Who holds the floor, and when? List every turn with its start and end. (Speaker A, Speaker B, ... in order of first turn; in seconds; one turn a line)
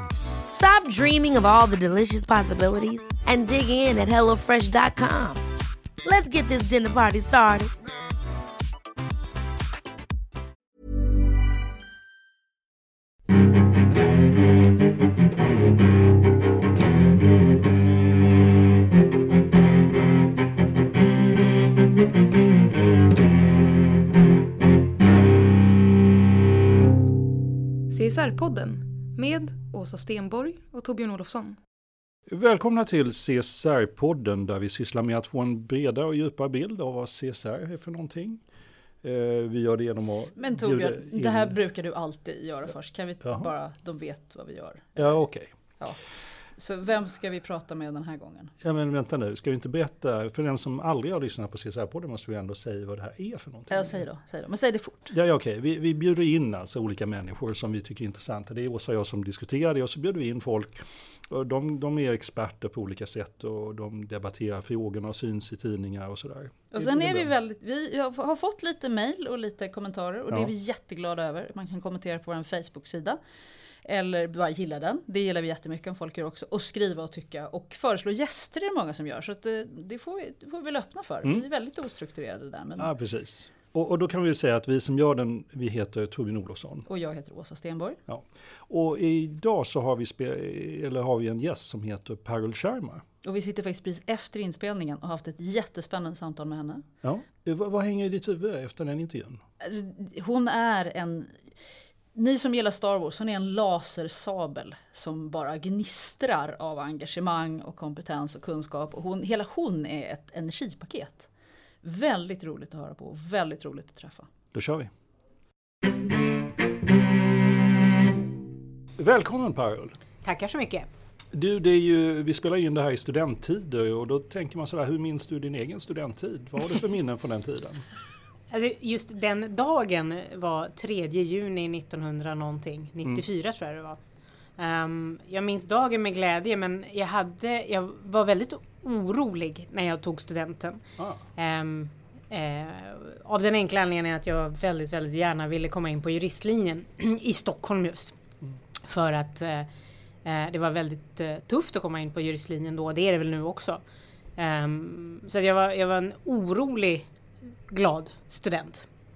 Speaker A: 0.5-5.4
Speaker A: 6.0-7.7
Speaker B: 27.9-31.6
Speaker C: 32.3-38.4
Speaker C: 39.0-41.6
Speaker D: 40.4-45.2
Speaker C: 45.0-45.5
Speaker D: 46.5-48.5
Speaker C: 48.6-54.0
Speaker D: 53.7-55.1
Speaker C: 55.1-67.3
Speaker D: 66.7-73.2
Speaker D: 73.8-82.9
Speaker C: 82.8-86.8
Speaker D: 86.8-88.0
Speaker C: 88.1-93.0
Speaker D: 93.2-96.8
Speaker C: 97.0-99.4
Speaker D: 99.6-101.4
Speaker D: 102.1-111.3
Speaker D: 111.8-114.3
Speaker C: 114.5-114.9
Speaker C: 119.0-120.0
Speaker E: 120.2-120.9
Speaker C: 121.3-127.8
Speaker E: 128.5-134.0
Speaker E: 134.6-140.8
Speaker C: 141.0-141.2
Speaker E: 141.3-148.1
Speaker E: 148.8-149.7
Speaker E: 150.2-153.8
Speaker E: 154.4-157.1
Speaker E: 157.7-158.9